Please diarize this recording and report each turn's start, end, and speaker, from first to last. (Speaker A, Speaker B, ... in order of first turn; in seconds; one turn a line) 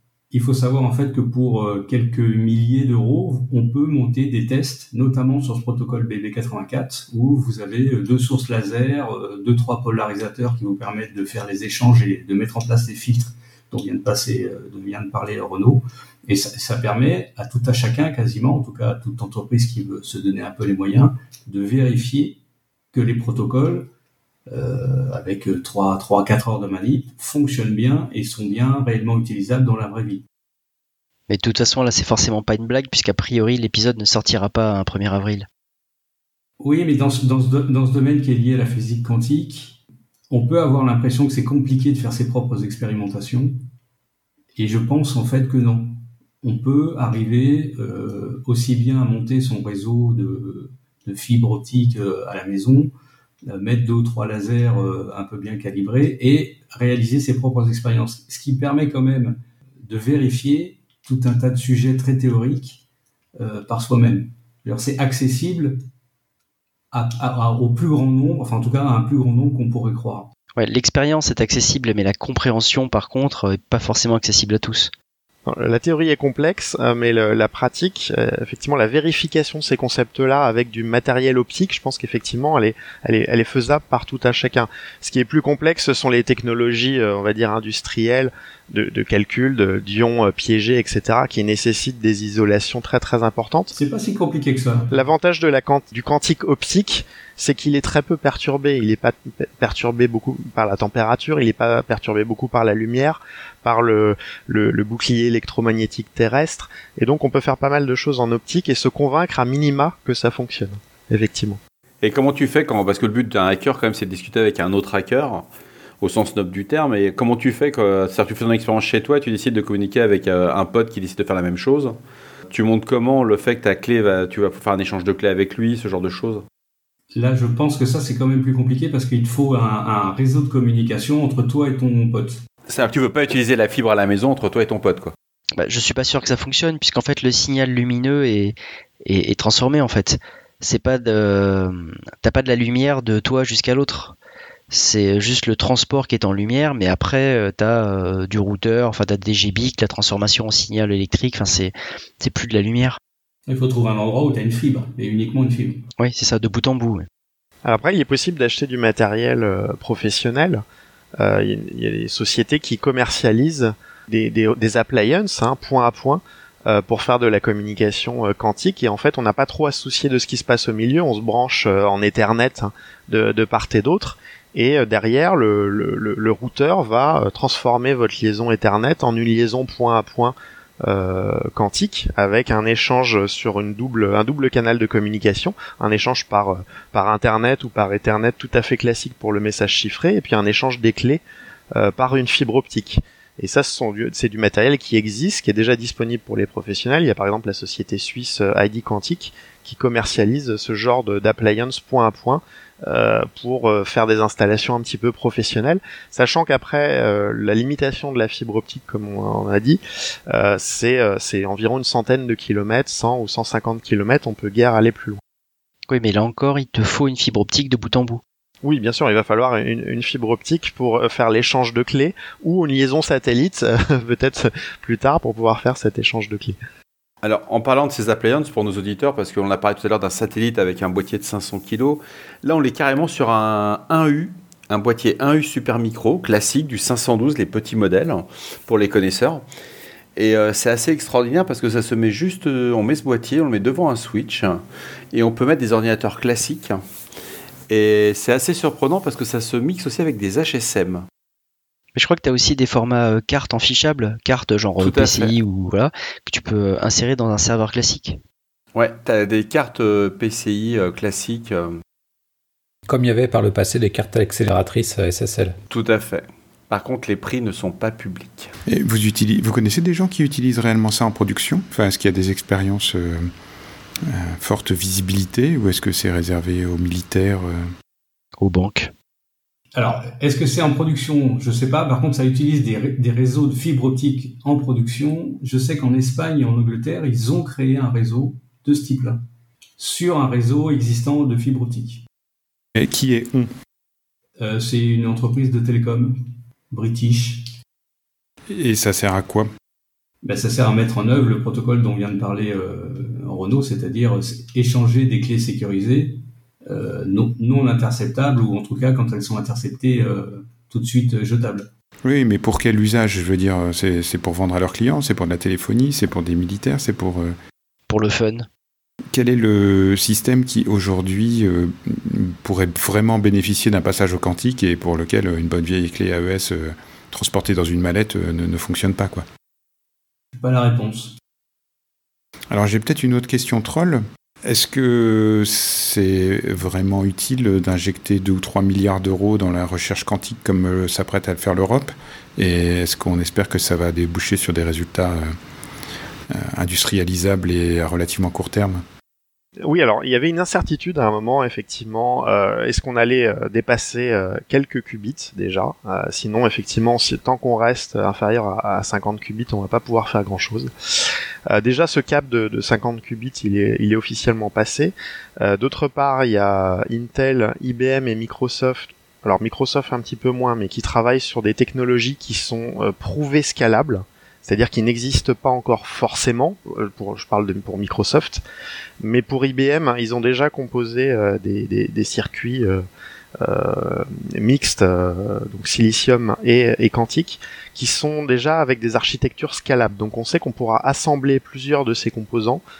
Speaker A: 0.3-22.4
Speaker A: 22.9-23.9
Speaker A: 24.5-30.2
Speaker B: 31.3-35.5
Speaker A: 36.6-39.8
Speaker A: 40.3-43.6
Speaker A: 44.5-52.9
Speaker A: 53.5-62.8
Speaker A: 63.4-65.8
Speaker A: 66.9-70.3
Speaker B: 70.6-74.9
Speaker C: 75.5-93.7
Speaker A: 93.7-94.9
Speaker C: 94.9-111.6
Speaker D: 112.0-115.5
Speaker D: 116.0-122.0
Speaker D: 122.5-126.4
Speaker A: 127.1-132.4
Speaker D: 132.7-135.1
Speaker B: 135.6-144.2
Speaker B: 144.7-153.0
Speaker A: 153.5-155.8
Speaker B: 156.0-157.1
Speaker C: 157.6-160.6
Speaker C: 161.2-191.2
Speaker C: 191.7-215.2
Speaker B: 215.9-218.2
Speaker C: 218.6-226.6
Speaker D: 227.2-239.4
Speaker D: 240.2-246.8
Speaker D: 247.7-251.1
Speaker B: 251.9-258.2
Speaker D: 254.8-255.3
Speaker D: 258.7-261.8
Speaker E: 262.9-265.6
Speaker D: 265.7-268.5
Speaker F: 268.7-273.3
Speaker F: 274.1-277.7
Speaker B: 278.4-278.9
Speaker A: 279.7-289.2
Speaker A: 289.8-292.0
Speaker F: 292.8-293.5
Speaker A: 294.4-297.5
Speaker F: 298.5-299.5
Speaker A: 300.2-311.7
Speaker F: 312.0-317.3
Speaker B: 317.9-318.5
Speaker F: 319.1-329.2
Speaker A: 330.4-331.1
Speaker F: 332.5-345.3
Speaker F: 346.3-348.8
Speaker C: 349.6-360.7
Speaker C: 361.5-378.4
Speaker C: 379.0-382.8
Speaker C: 383.4-392.6